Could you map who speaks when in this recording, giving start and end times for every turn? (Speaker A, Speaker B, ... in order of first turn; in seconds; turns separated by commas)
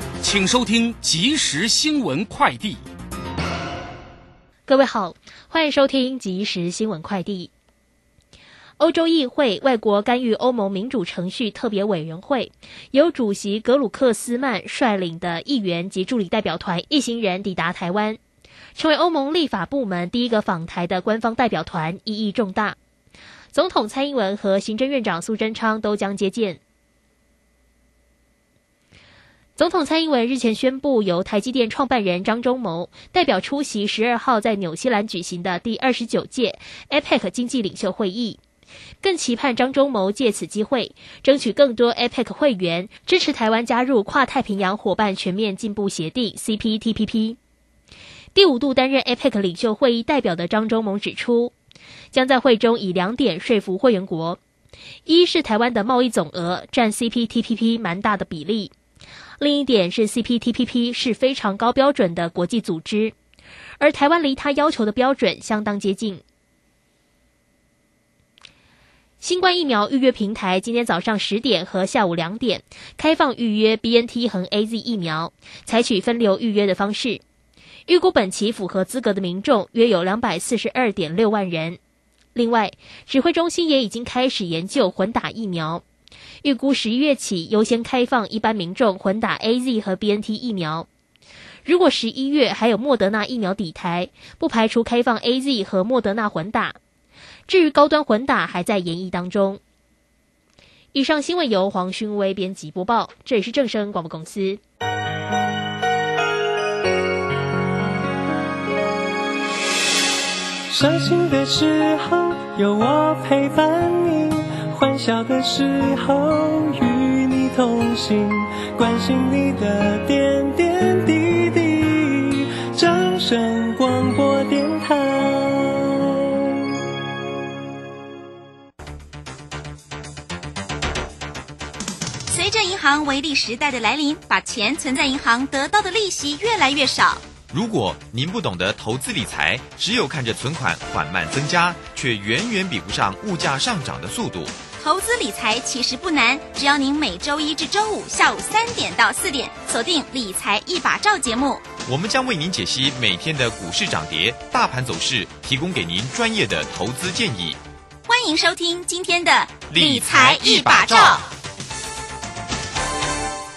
Speaker A: 0.2-2.8, Speaker B: 4.7-7.5, Speaker B: 8.8-18.2, Speaker B: 18.8-22.8, Speaker B: 23.5-26.6, Speaker B: 29.6-38.4, Speaker B: 39.0-47.4, Speaker B: 48.3-51.5, Speaker B: 52.1-54.4, Speaker B: 55.1-58.7, Speaker B: 59.4-63.1, Speaker B: 63.8-66.2, Speaker B: 69.2-77.2, Speaker B: 77.9-81.8, Speaker B: 82.3-85.8, Speaker B: 86.4-90.9, Speaker B: 91.7-96.8, Speaker B: 97.5-99.6, Speaker B: 100.9-104.6, Speaker C: 110.7-126.4, Speaker D: 132.3-137.2, Speaker E: 137.5-144.6, Speaker D: 144.8-151.7, Speaker E: 151.9-157.6, Speaker D: 158.1-161.2, Speaker E: 159.7-161.2